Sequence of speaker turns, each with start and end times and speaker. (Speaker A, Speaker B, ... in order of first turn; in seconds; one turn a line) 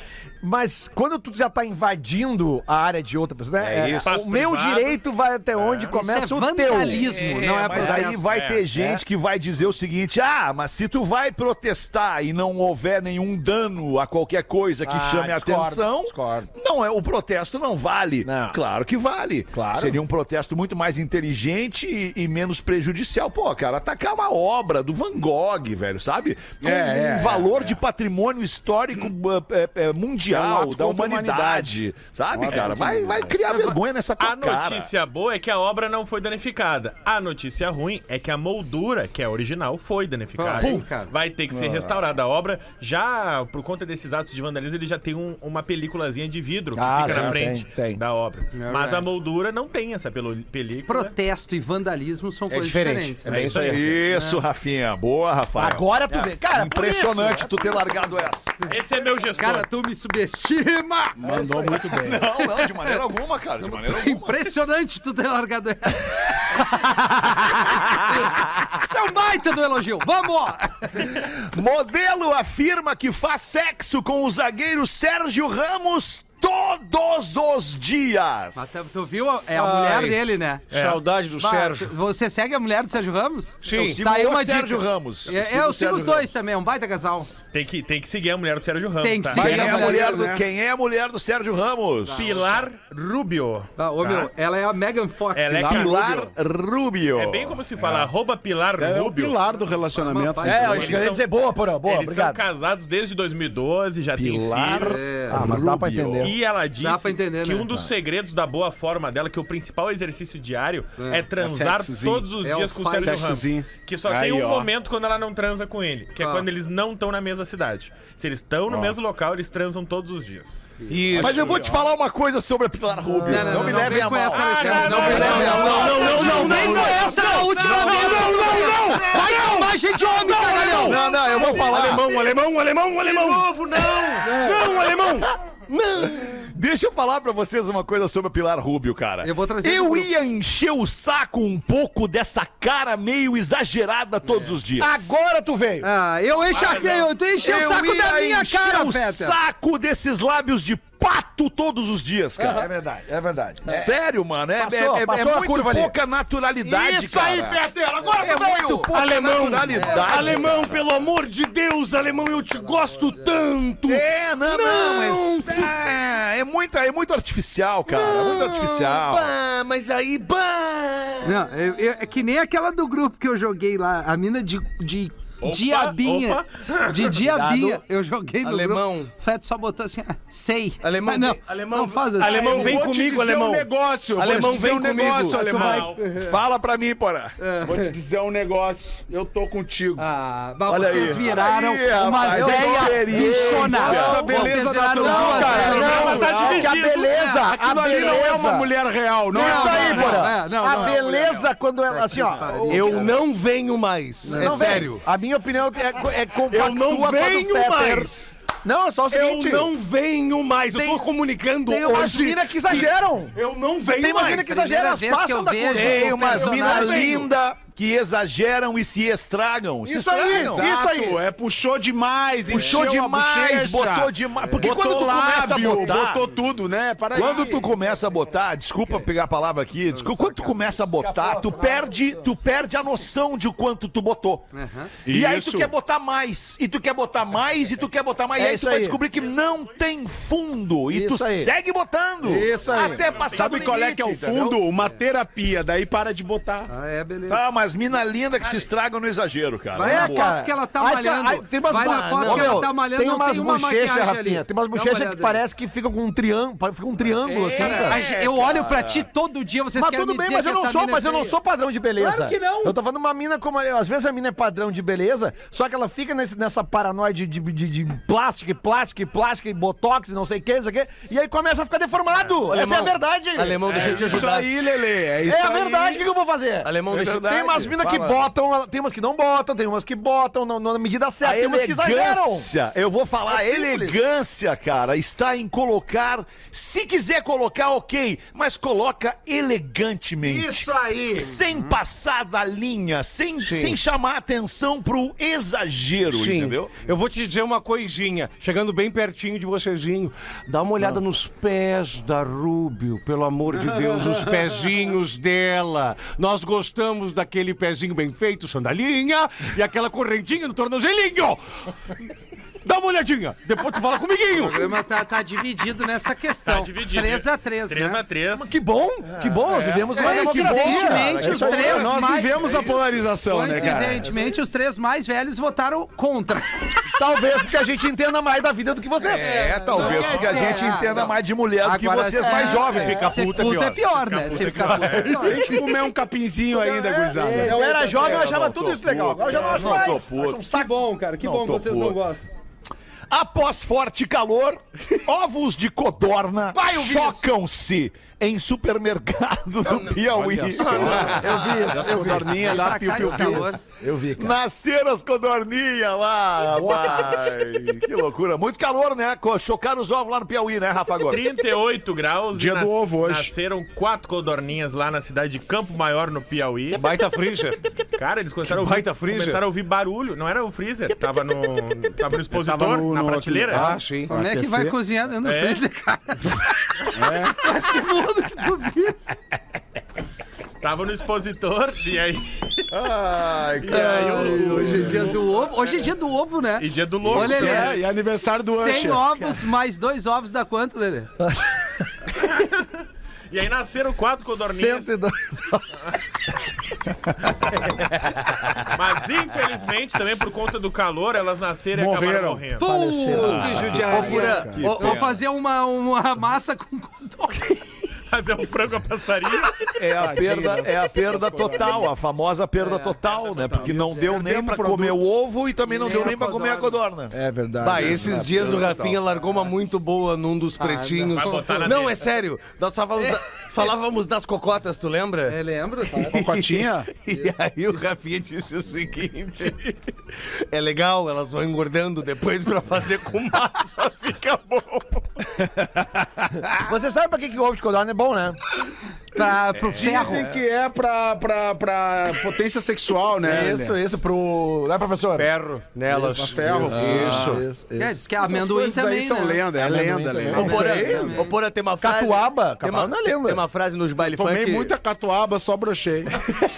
Speaker A: 0.4-7.1
Speaker B: 3.6-4.1
Speaker C: 4.0-5.0
Speaker C: 5.5-5.9
Speaker D: 5.9-8.2
Speaker E: 6.9-34.9
Speaker A: 7.7-9.0
Speaker C: 8.3-8.6
Speaker A: 14.8-16.5
Speaker A: 18.2-18.6
Speaker A: 19.5-20.0
Speaker F: 26.6-27.7
Speaker A: 26.7-27.5
Speaker F: 30.3-31.8
Speaker F: 32.3-33.3
Speaker D: 33.5-33.8
Speaker C: 34.2-51.1
Speaker D: 40.4-41.1
Speaker A: 46.7-48.0
Speaker D: 48.5-49.0
Speaker D: 50.9-54.4
Speaker B: 52.5-54.0
Speaker C: 53.2-53.7
Speaker E: 53.4-58.6
Speaker A: 55.5-58.2
Speaker C: 58.7-59.7
Speaker D: 59.4-61.2
Speaker F: 61.2-62.2
Speaker E: 61.2-64.5
Speaker D: 62.3-63.0
Speaker D: 63.6-71.1
Speaker E: 71.0-79.4
Speaker D: 78.5-80.7
Speaker B: 79.5-81.9
Speaker C: 80.7-81.0
Speaker D: 81.4-87.3
Speaker B: 83.6-84.0
Speaker E: 83.7-86.3
Speaker C: 87.5-89.6
Speaker D: 89.0-90.2
Speaker F: 89.3-90.4
Speaker E: 89.3-92.5
Speaker D: 92.1-92.4
Speaker C: 92.1-94.3
Speaker D: 93.8-95.9
Speaker C: 95.3-96.3
Speaker E: 95.6-97.6
Speaker C: 97.1-99.4
Speaker F: 97.8-98.1
Speaker F: 98.8-101.0
Speaker D: 99.9-101.0
Speaker A: 100.4-102.4
Speaker C: 100.5-101.3
Speaker C: 101.8-105.1
Speaker E: 104.2-106.3
Speaker D: 104.8-105.4
Speaker A: 105.3-106.3
Speaker F: 105.4-105.7
Speaker C: 106.2-121.6
Speaker D: 106.8-107.6
Speaker D: 111.0-111.3
Speaker F: 111.4-112.3
Speaker D: 112.4-113.3
Speaker F: 113.0-114.7
Speaker D: 116.2-116.5
Speaker F: 118.7-118.9
Speaker B: 120.9-121.7
Speaker E: 121.1-126.8
Speaker D: 123.2-131.0
Speaker C: 123.5-129.3
Speaker B: 125.0-136.5
Speaker E: 130.5-132.1
Speaker C: 132.9-134.6
Speaker E: 136.0-145.1
Speaker D: 139.2-140.1
Speaker D: 144.2-144.6
Speaker A: 144.8-145.9
Speaker D: 145.8-149.4
Speaker C: 146.5-147.1
Speaker E: 147.4-152.7
Speaker A: 152.4-153.9
Speaker E: 153.6-157.6
Speaker A: 154.5-155.9
Speaker A: 156.6-158.9
Speaker E: 158.1-160.8
Speaker B: 158.9-165.7
Speaker D: 159.7-160.4
Speaker D: 162.5-163.3
Speaker E: 163.8-169.3
Speaker B: 167.9-171.4
Speaker D: 171.2-182.8
Speaker C: 175.4-177.2
Speaker B: 177.2-177.8
Speaker B: 178.4-179.1
Speaker B: 180.8-185.9
Speaker F: 182.2-186.0
Speaker C: 185.3-186.1
Speaker E: 186.0-187.4
Speaker D: 187.4-187.9
Speaker F: 187.6-190.1
Speaker D: 190.0-198.2
Speaker E: 190.7-194.3
Speaker A: 192.2-198.7
Speaker F: 193.2-200.3
Speaker B: 194.3-195.6
Speaker C: 195.6-196.9
Speaker A: 199.3-203.1
Speaker D: 199.3-203.2
Speaker B: 202.6-205.0
Speaker D: 204.2-204.9
Speaker A: 204.2-209.7
Speaker B: 206.5-208.3
Speaker B: 209.1-214.6
Speaker A: 210.8-211.0
Speaker A: 211.6-213.4
Speaker A: 213.9-217.1
Speaker D: 214.2-217.2
Speaker E: 215.7-220.7
Speaker B: 216.8-217.2
Speaker A: 219.8-221.2
Speaker F: 220.3-227.6
Speaker E: 222.5-226.3
Speaker D: 222.5-222.8
Speaker D: 224.4-224.7
Speaker E: 227.1-234.5
Speaker A: 227.2-227.8
Speaker D: 229.9-230.5
Speaker A: 230.2-232.3
Speaker D: 234.5-234.9
Speaker F: 235.1-235.7
Speaker E: 235.1-244.6
Speaker A: 238.3-239.0
Speaker A: 240.9-241.5
Speaker A: 242.2-243.1
Speaker C: 242.8-243.7
Speaker F: 243.2-246.7
Speaker D: 246.7-247.4
Speaker E: 247.3-250.3
Speaker D: 249.7-255.4
Speaker A: 249.8-258.0
Speaker B: 251.7-252.7
Speaker E: 257.3-259.1
Speaker D: 257.5-261.3
Speaker A: 259.7-274.3
Speaker D: 261.9-262.8
Speaker B: 272.4-274.6
Speaker F: 273.6-276.0
Speaker A: 275.2-282.5
Speaker B: 276.6-277.3
Speaker E: 276.9-278.3
Speaker E: 281.2-296.8
Speaker A: 283.3-284.0
Speaker A: 290.2-291.4
Speaker B: 293.4-293.8
Speaker B: 296.1-311.7
Speaker F: 303.6-304.3
Speaker B: 312.6-314.7
Speaker D: 314.3-318.0
Speaker C: 316.4-318.6
Speaker A: 318.3-322.5
Speaker E: 319.1-323.1
Speaker D: 319.9-322.6
Speaker F: 320.6-324.1
Speaker D: 323.2-326.8
Speaker A: 323.6-324.0
Speaker A: 326.9-329.5
Speaker E: 329.1-333.1
Speaker B: 329.1-329.6
Speaker D: 329.2-335.6
Speaker C: 329.8-330.5
Speaker A: 332.2-333.1
Speaker B: 332.3-333.8
Speaker C: 334.0-335.3
Speaker A: 335.0-335.6
Speaker F: 335.2-337.6
Speaker A: 336.5-340.7
Speaker D: 337.4-338.4
Speaker E: 337.9-340.4
Speaker D: 339.3-342.3
Speaker E: 341.2-342.0
Speaker E: 343.1-351.5
Speaker D: 346.5-347.2
Speaker B: 349.6-351.9
Speaker F: 350.1-353.6
Speaker A: 350.8-354.4
Speaker D: 352.0-353.6
Speaker E: 354.1-361.3
Speaker A: 356.6-357.1
Speaker C: 361.1-366.9
Speaker F: 362.3-363.3
Speaker B: 366.7-367.6
Speaker C: 367.9-373.7
Speaker B: 368.4-369.4
Speaker F: 372.3-374.8
Speaker B: 373.5-374.1
Speaker D: 374.1-379.0
Speaker C: 375.2-375.6
Speaker F: 376.9-377.4
Speaker C: 380.6-382.6
Speaker E: 382.7-385.1
Speaker C: 383.6-385.2
Speaker D: 383.7-387.8
Speaker A: 384.2-384.9
Speaker F: 384.5-385.1
Speaker C: 386.6-387.8
Speaker F: 387.1-389.2
Speaker D: 388.4-391.1
Speaker A: 391.2-391.8
Speaker C: 392.2-392.7
Speaker C: 393.3-395.0
Speaker A: 394.2-395.9
Speaker C: 398.7-402.7
Speaker F: 401.7-402.4
Speaker D: 402.6-407.6
Speaker A: 402.6-404.6
Speaker E: 403.1-405.0
Speaker B: 403.7-405.0
Speaker F: 403.8-404.4
Speaker C: 408.1-409.6
Speaker E: 409.8-417.1
Speaker F: 409.9-411.9
Speaker F: 413.5-415.1
Speaker D: 415.7-416.8
Speaker A: 417.1-418.9
Speaker B: 417.6-425.4
Speaker D: 420.6-421.7
Speaker C: 421.1-422.0
Speaker D: 425.3-426.2
Speaker B: 426.0-435.2
Speaker F: 426.0-426.9
Speaker E: 435.6-436.6
Speaker A: 436.5-438.4
Speaker D: 439.1-440.3
Speaker E: 439.7-440.4
Speaker F: 439.7-443.8
Speaker A: 443.2-445.3
Speaker B: 445.1-447.4
Speaker F: 445.9-447.4
Speaker A: 446.6-447.9
Speaker D: 447.8-449.5
Speaker F: 448.2-451.1
Speaker A: 449.5-451.2
Speaker D: 450.3-451.3
Speaker B: 450.3-454.7
Speaker A: 451.8-453.4
Speaker F: 454.0-456.2